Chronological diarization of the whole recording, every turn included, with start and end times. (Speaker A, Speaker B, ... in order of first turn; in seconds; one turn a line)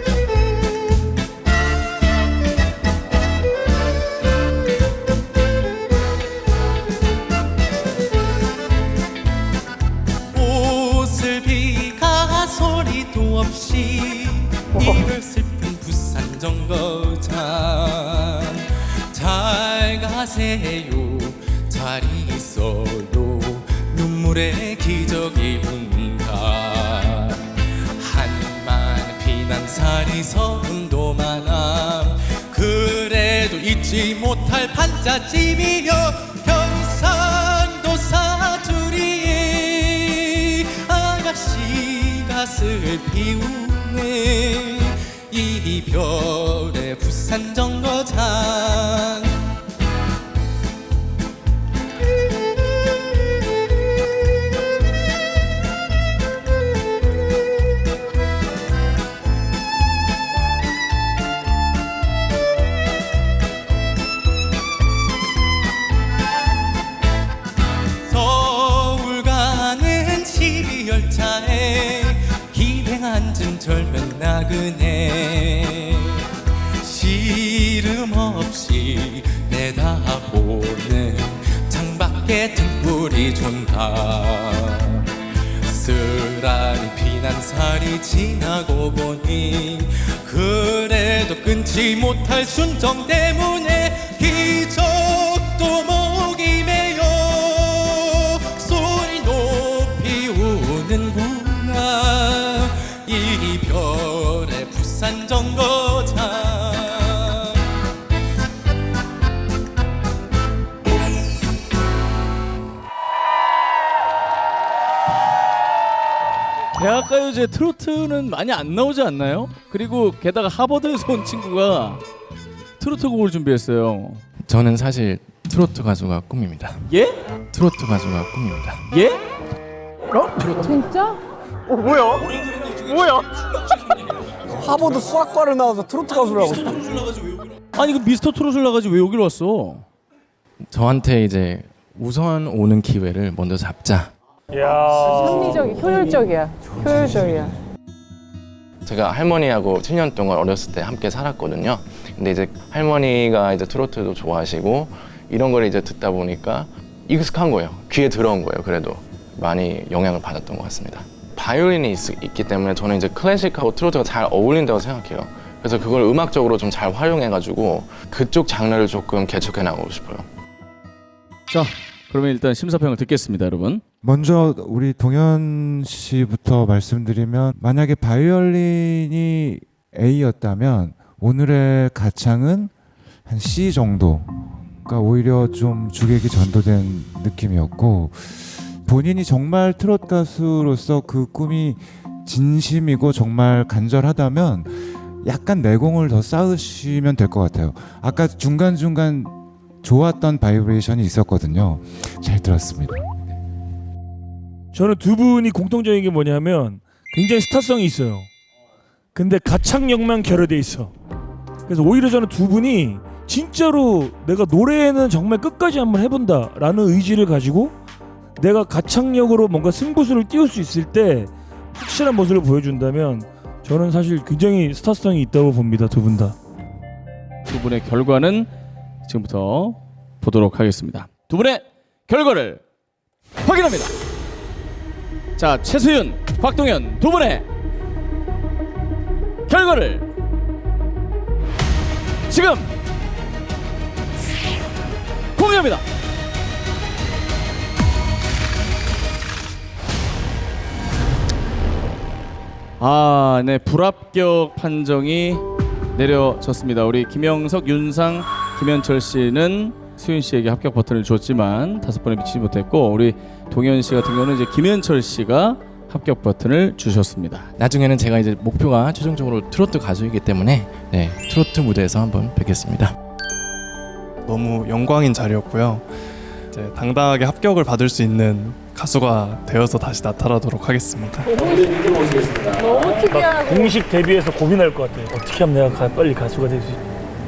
Speaker A: 10.3-25.4
Speaker B: 13.1-13.7
Speaker B: 15.3-16.7
Speaker B: 20.0-21.1
Speaker B: 21.8-23.2
Speaker B: 24.1-26.2
Speaker A: 26.0-29.3
Speaker B: 28.4-31.4
Speaker A: 29.9-49.3
Speaker A: 68.1-76.3
Speaker A: 76.8-85.1
Speaker B: 82.6-83.7
Speaker A: 85.6-107.6
Speaker C: 116.7-122.0
Speaker C: 122.8-124.2
Speaker B: 124.5-126.8
Speaker C: 126.9-127.2
Speaker B: 127.5-128.8
Speaker C: 128.9-129.2
Speaker D: 130.5-131.2
Speaker C: 132.1-133.2
Speaker E: 134.5-136.7
Speaker C: 137.7-139.8
Speaker B: 140.7-144.1
Speaker F: 144.7-145.7
Speaker D: 145.0-147.6
Speaker B: 148.8-170.2
Speaker C: 171.5-173.8
Speaker G: 174.0-182.7
Speaker G: 183.2-184.3
Speaker G: 184.8-203.1
Speaker F: 204.7-208.3
Speaker F: 209.1-210.9
Speaker F: 211.7-217.8
Speaker F: 218.4-226.3
Speaker C: 227.4-228.5
Speaker C: 229.1-232.6
Speaker C: 233.4-233.9
Speaker C: 235.3-237.4
Speaker C: 239.5-240.1
Speaker C: 242.3-242.7
Speaker C: 245.3-245.8
Speaker C: 252.8-255.4
Speaker C: 255.9-267.5
Speaker B: 267.6-272.9
Speaker H: 274.2-281.5
Speaker D: 282.6-283.8
Speaker F: 283.3-286.8